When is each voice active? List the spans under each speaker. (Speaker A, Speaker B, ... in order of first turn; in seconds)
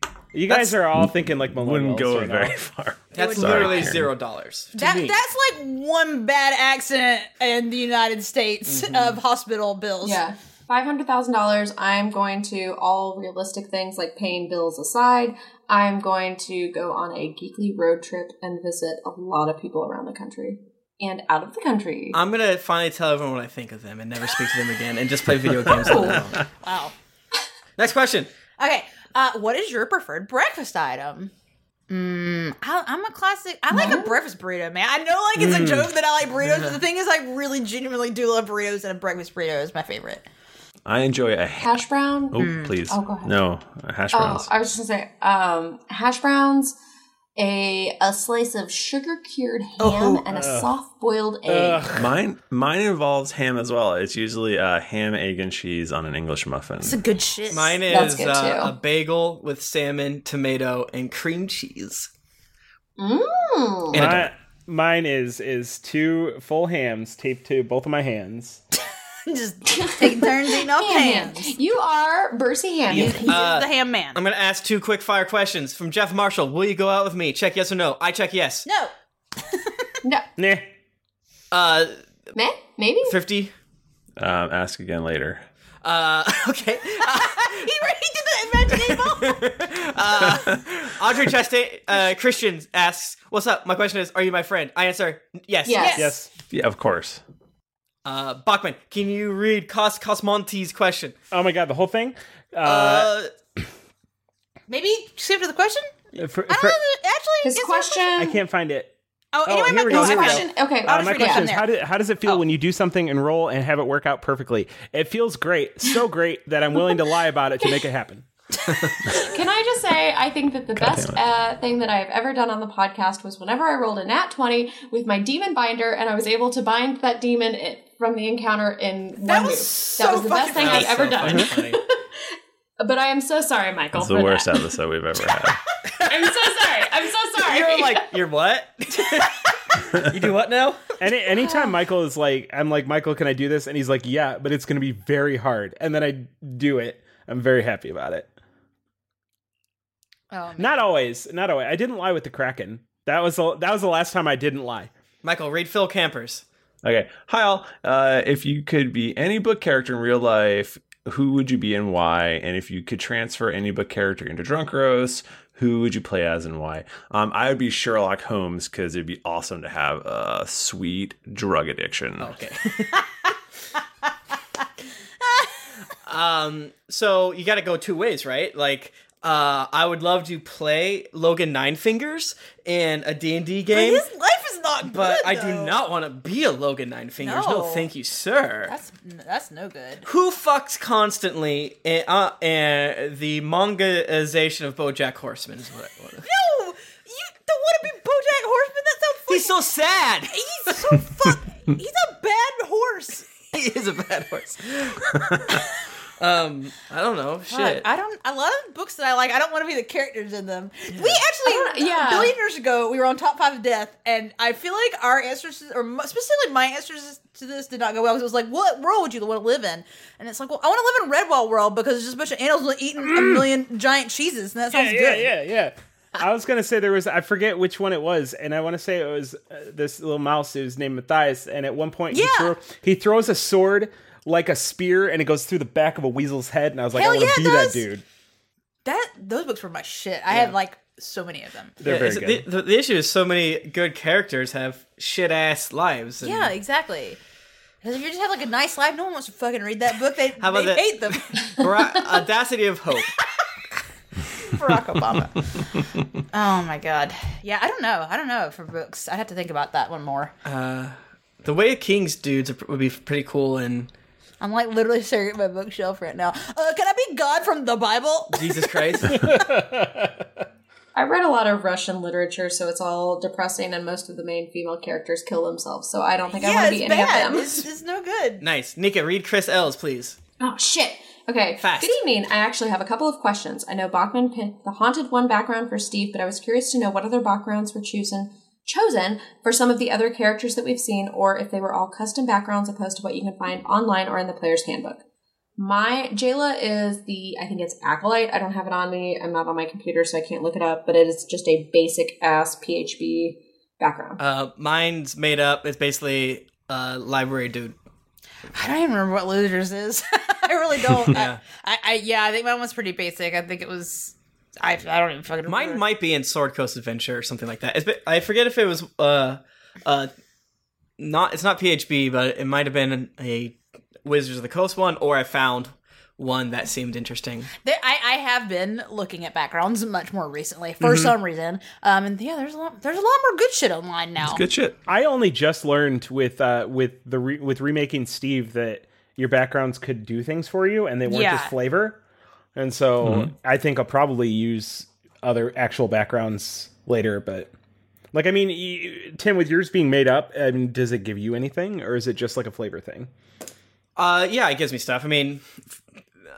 Speaker A: 0.3-2.6, 4.8-5.1, 35.4-35.9, 49.8-50.7, 51.5-52.1, 63.9-68.6, 72.9-73.2, 80.4-80.7, 96.0-96.3, 101.3-103.1, 106.2-106.8, 108.2-108.9, 109.4-118.2, 141.0-148.3, 150.6-154.9, 223.0-223.5, 224.7-238.0, 241.8-242.4, 269.1-270.3, 334.9-342.0, 342.5-347.5, 348.1-353.1
Speaker B: 0.5-0.7, 3.1-4.8, 8.7-9.2, 22.1-26.4, 27.8-28.3, 57.5-62.1, 63.9-64.3, 73.3-78.7, 81.5-82.0, 83.0-83.5, 85.8-87.6, 88.7-96.0, 98.0-101.1, 102.6-103.3, 130.5-131.8, 137.4-139.3, 139.9-140.8, 155.2-156.4, 172.2-173.0, 176.1-184.0, 184.8-188.7, 190.0-196.3, 199.3-200.4, 203.5-205.2, 206.2-207.8, 210.9-211.2, 241.8-246.5, 250.4-253.2, 260.4-263.9, 268.3-269.2, 278.4-280.2, 281.6-282.0, 304.2-307.8, 311.1-311.4, 315.4-320.1, 321.0-327.5, 354.0-355.6
Speaker C: 0.9-4.1, 25.7-26.1, 40.9-44.5, 52.0-57.0, 84.2-85.4, 96.5-97.2, 120.7-121.2, 133.9-135.6, 156.8-172.3, 334.2-334.8, 343.0-343.3
Speaker D: 3.1-3.9, 4.8-10.2, 26.6-26.9, 28.6-31.3, 31.9-40.2, 42.4-42.7, 49.8-50.1, 56.8-57.8, 69.2-71.5, 72.9-74.2, 78.7-79.9, 87.0-89.4, 95.8-96.1, 104.7-105.9, 106.5-108.1, 109.3-111.7, 129.2-131.0, 150.3-150.8, 175.2-175.7, 183.7-185.8, 187.2-187.9, 188.7-190.1, 196.2-199.6, 200.3-203.3, 207.5-225.3, 232.1-232.5, 236.9-237.8, 238.8-241.7, 246.2-247.2, 247.8-251.6, 254.4-255.6, 256.3-260.3, 264.4-269.3, 276.3-278.4, 308.5-315.8, 327.6-334.4, 341.1-341.5
Speaker E: 10.0-22.2, 25.8-26.4, 33.7-34.2, 41.6-43.3, 44.1-46.7, 47.4-51.8, 57.9-58.7, 63.0-64.1, 69.7-73.3, 82.3-83.2, 95.7-96.1, 107.4-108.4, 109.9-111.5, 119.0-131.9, 132.8-134.6, 136.0-138.0, 211.4-212.3, 270.9-277.6, 280.4-295.0, 295.6-304.2